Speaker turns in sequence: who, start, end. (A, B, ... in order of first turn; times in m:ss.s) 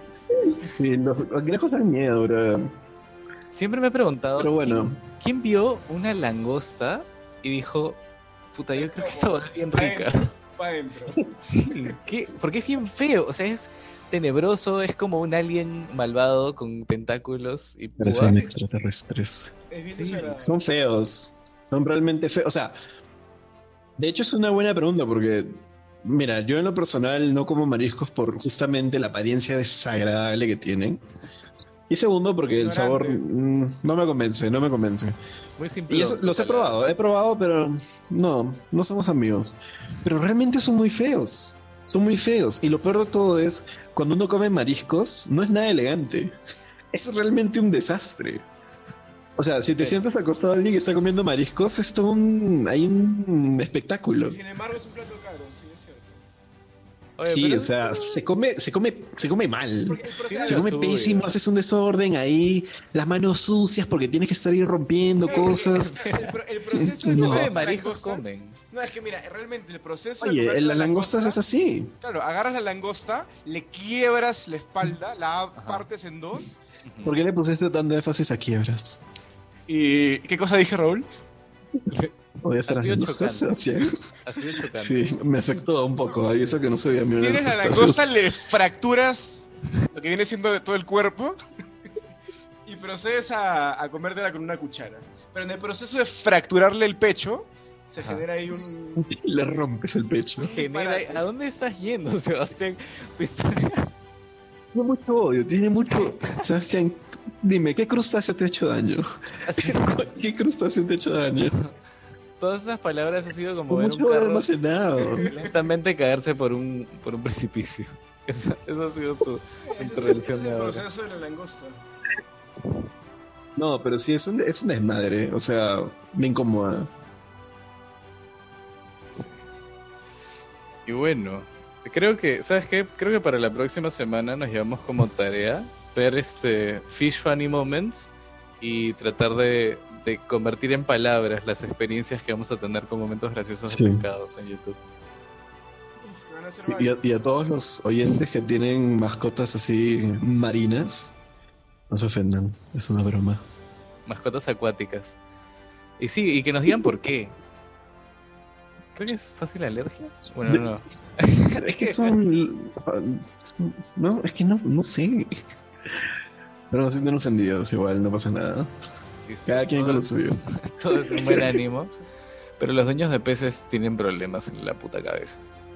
0:00.6-0:02.7 A
0:03.5-0:08.0 B
0:04.4-0:05.0 A
0:08.5-0:10.3 B
0:08.7-0:11.2 C
0:11.4-0:18.5 B
0:18.0-0:19.5 A
0:18.2-0:18.5 C
0:19.7-0:20.6 C
0:19.9-0:20.4 B
0:20.4-0:22.8 A
0:24.0-0:31.0 A
0:31.9-0:35.2 A
0:32.6-0:33.2 C
0:35.6-0:36.8 B
0:35.9-0:46.4 A
0:46.9-0:48.5 A
0:49.4-0:54.4 A
0:54.2-0:56.2 C
0:57.2-0:57.9 B
0:57.2-1:05.9 A
0:59.9-1:00.8 C
1:00.4-1:01.3 B
1:05.2-1:11.4 C
1:05.4-1:06.3 B
1:06.7-1:07.5 A
1:07.1-1:08.6 B
1:10.2-1:11.9 A
1:12.0-1:16.6 C
1:15.6-1:15.9 B
1:16.8-1:17.2 B
1:17.0-1:19.0 A
1:19.7-1:21.1 C
1:21.9-1:22.1 B
1:22.4-1:24.0 A
1:22.7-1:25.1 B
1:24.8-1:28.1 A
1:26.0-1:27.0 B
1:27.1-1:31.4 C
1:32.7-1:39.1 C
1:39.0-1:40.5 A
1:40.4-1:41.3 C
1:40.4-1:43.9 B
1:44.7-1:49.0 A
1:49.4-1:50.0 B
1:49.6-1:51.6 A
1:51.5-1:51.8 B
1:52.4-1:54.5 B
1:53.7-1:55.3 A
1:55.0-1:55.6 C
1:55.2-2:00.8 B
1:59.6-2:01.8 C
2:03.6-2:06.9 A
2:09.0-2:09.4 B
2:10.9-2:24.8 B
2:23.7-2:24.1 A
2:26.0-2:27.2 C
2:26.6-2:31.2 A
2:31.9-2:33.4 A
2:34.1-2:35.2 B
2:36.0-2:37.3 B
2:38.9-2:42.2 B
2:41.6-2:45.4 A
2:46.7-2:48.7 A
2:49.3-2:51.9 B
2:49.5-2:50.4 A
2:51.2-2:51.5 A
2:52.6-2:55.4 B